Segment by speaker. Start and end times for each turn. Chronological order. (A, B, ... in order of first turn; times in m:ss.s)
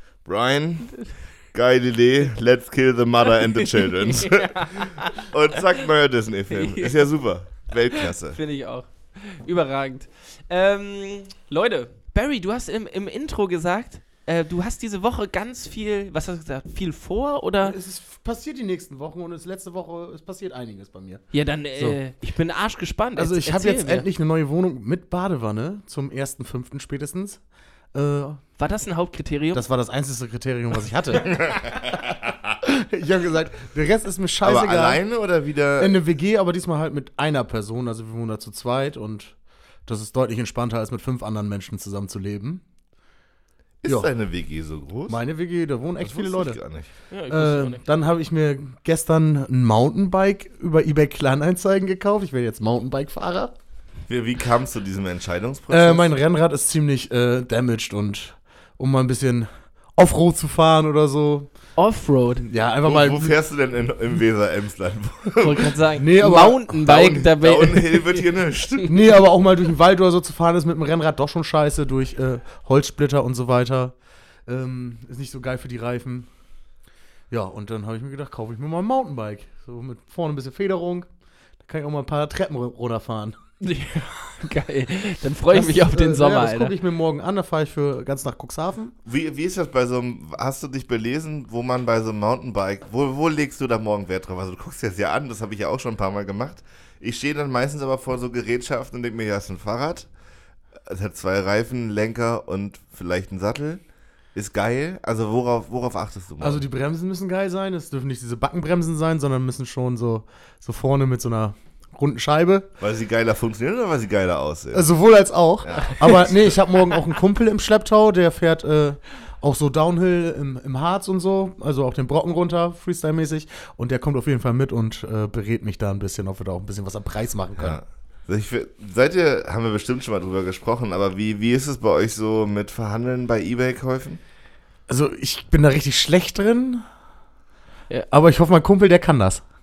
0:00.2-0:08.4 A
0:04.1-0:05.3 B
0:06.5-0:07.0 B
0:08.0-0:17.8 B
0:17.6-0:21.2 C
0:21.3-0:24.0 B
0:23.2-0:28.4 C
0:28.6-0:29.6 B
0:29.5-0:31.4 C
0:31.3-0:32.3 A
0:32.6-0:35.0 C
0:34.4-0:35.9 A
0:35.8-0:39.3 C
0:39.8-0:42.6 C
0:43.8-0:45.2 A
0:43.8-0:44.1 C
0:45.1-0:46.6 C
0:46.0-0:46.9 A
0:47.1-0:47.8 B
0:47.3-0:53.5 C
0:54.1-0:56.1 A
0:55.7-1:01.5 C
1:01.8-1:02.5 B
1:02.5-1:03.4 C
1:02.8-1:05.7 A
1:05.4-1:08.8 B
1:06.0-1:06.7 C
1:06.8-1:08.9 A
1:08.9-1:13.9 C
1:14.4-1:16.3 C
1:17.3-1:21.1 C
1:21.6-1:23.4 C
1:23.6-1:26.7 B
1:25.5-1:28.9 C
1:29.0-1:40.1 A
1:40.8-1:43.8 A
1:44.3-1:46.6 A
1:46.4-1:52.7 C
1:52.8-1:54.9 A
1:54.7-2:07.8 C
1:55.6-1:56.6 A
2:07.6-2:14.2 A
2:14.9-2:16.9 C
2:18.1-2:19.4 C